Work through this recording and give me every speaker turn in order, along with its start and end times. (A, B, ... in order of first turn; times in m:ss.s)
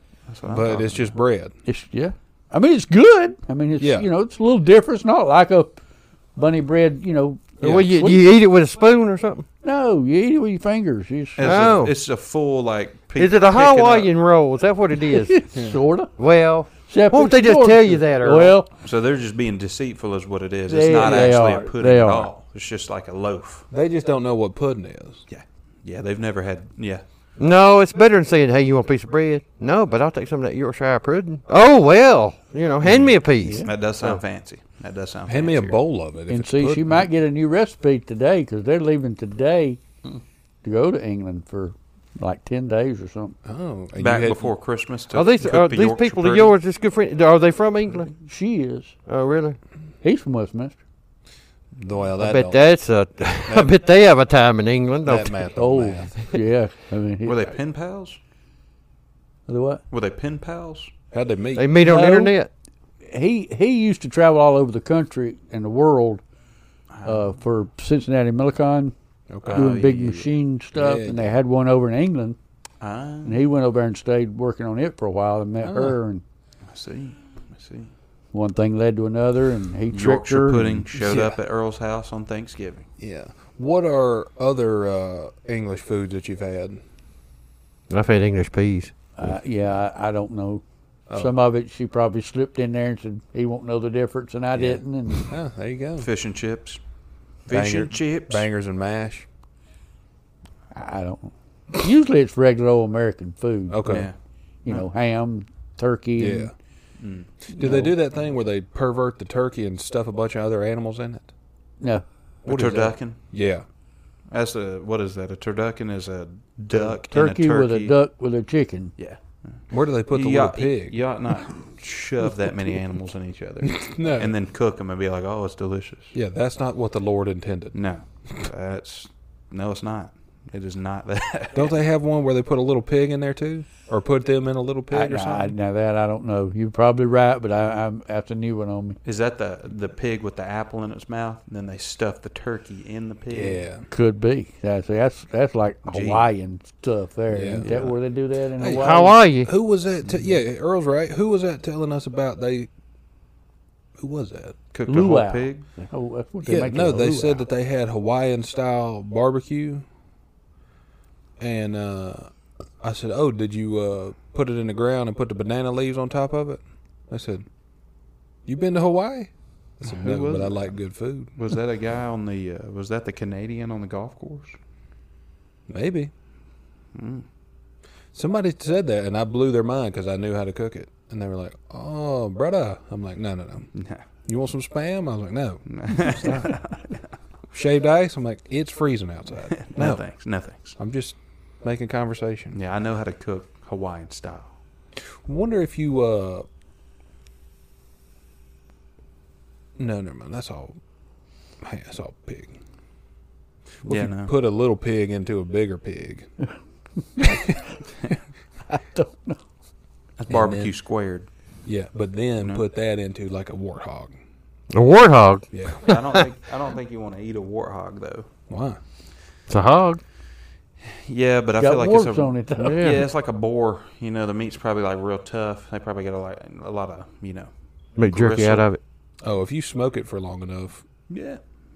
0:00.3-0:01.2 A
0:00.5-0:01.5 B
0:01.6-0:05.8 C
0:03.8-0:04.1 B
0:06.3-0:08.2 C
0:07.6-0:09.4 D
0:09.6-0:11.6 C
0:11.4-0:14.1 A
0:11.4-0:12.0 D
0:13.2-0:15.4 D
0:15.1-0:16.1 C
0:15.5-0:15.8 B
0:16.2-0:18.5 D
0:16.9-0:18.7 C
0:18.8-0:23.7 A
0:20.7-0:22.3 C
0:23.7-0:25.2 B
0:25.3-0:27.0 A
0:27.4-0:34.2 D
0:32.8-0:35.8 A
0:33.4-0:33.7 C
0:35.3-0:37.1 B
0:36.3-0:39.8 C
0:40.6-0:43.4 C
0:43.4-0:44.5 B
0:44.0-0:46.5 A
0:45.1-0:48.1 D
0:48.2-0:48.9 C
0:49.1-0:49.6 D
0:50.0-0:50.8 C
0:51.7-0:52.6 B
0:52.2-0:55.4 D
0:53.5-0:53.7 B
0:55.0-0:56.4 B
0:55.5-0:57.5 C
0:57.2-0:58.2 A
0:59.5-0:59.8 C
0:59.9-1:00.9 A
1:01.1-1:01.7 B
1:01.6-1:02.5 D
1:01.8-1:02.3 C
1:03.0-1:06.2 C
1:06.9-1:07.3 A
1:07.0-1:08.9 C
1:09.3-1:09.7 B
1:09.4-1:10.3 A
1:09.5-1:12.4 C
1:10.8-1:11.3 B
1:12.8-1:13.4 A
1:13.2-1:16.2 C
1:15.6-1:16.0 B
1:16.7-1:17.9 A
1:18.3-1:20.8 C
1:19.9-1:22.9 A
1:20.9-1:21.4 B
1:23.0-1:26.8 B
1:27.9-1:28.9 D
1:29.2-1:30.6 C
1:31.1-1:35.3 C
1:34.5-1:36.1 B
1:36.0-1:36.8 A
1:37.4-1:38.5 A
1:37.5-1:39.2 B
1:40.7-1:44.0 C
1:43.7-1:44.1 B
1:43.8-1:44.2 A
1:44.6-1:46.5 C
1:46.2-1:46.5 B
1:47.0-1:47.3 A
1:47.5-1:51.3 B
1:47.5-1:47.9 C
1:52.4-1:53.2 A
1:52.4-1:53.6 B
1:54.3-1:57.9 A
1:57.0-1:58.9 C
1:59.0-2:06.1 A
1:59.7-2:01.0 B
2:03.6-2:04.3 B
2:06.1-2:07.8 B
2:07.7-2:11.8 A
2:11.5-2:15.5 B
2:14.9-2:19.0 C
2:19.0-2:23.7 A
2:23.3-2:23.8 B
2:23.9-2:29.1 C
2:25.9-2:26.2 A
2:27.3-2:27.9 B
2:27.6-2:27.9 A
2:28.6-2:32.7 B
2:28.6-2:29.5 D
2:30.0-2:30.4 A
2:34.0-2:34.6 B
2:34.7-2:35.6 A
2:34.8-2:37.4 C
2:36.4-2:39.8 B
2:41.4-2:47.5 B
2:48.4-2:51.3 B
2:49.8-2:50.8 A
2:51.4-2:54.6 A
2:55.7-2:56.1 B
2:56.9-2:57.2 A
2:58.1-3:03.7 B
3:03.7-3:04.0 A
3:04.2-3:06.5 B
3:05.7-3:07.0 A
3:07.5-3:10.0 B
3:09.5-3:10.8 A
3:10.8-3:12.6 B
3:12.5-3:14.6 A
3:15.2-3:16.4 B
3:19.8-3:20.8 B
3:21.6-3:22.6 B
3:23.8-3:26.3 B
3:23.9-3:24.3 A
3:27.2-3:27.6 C
3:27.2-3:27.5 B
3:28.7-3:29.4 C
3:30.2-3:31.3 A
3:30.3-3:30.7 B
3:31.6-3:34.1 B
3:34.7-3:36.2 D
3:35.5-3:35.9 B
3:35.8-3:38.3 A
3:38.5-3:38.8 B
3:39.5-3:40.0 D
3:40.9-3:47.5 A
3:41.6-3:43.0 C
3:48.0-3:48.8 D
3:48.1-3:48.6 A
3:49.2-3:50.8 B
3:51.1-3:51.4 A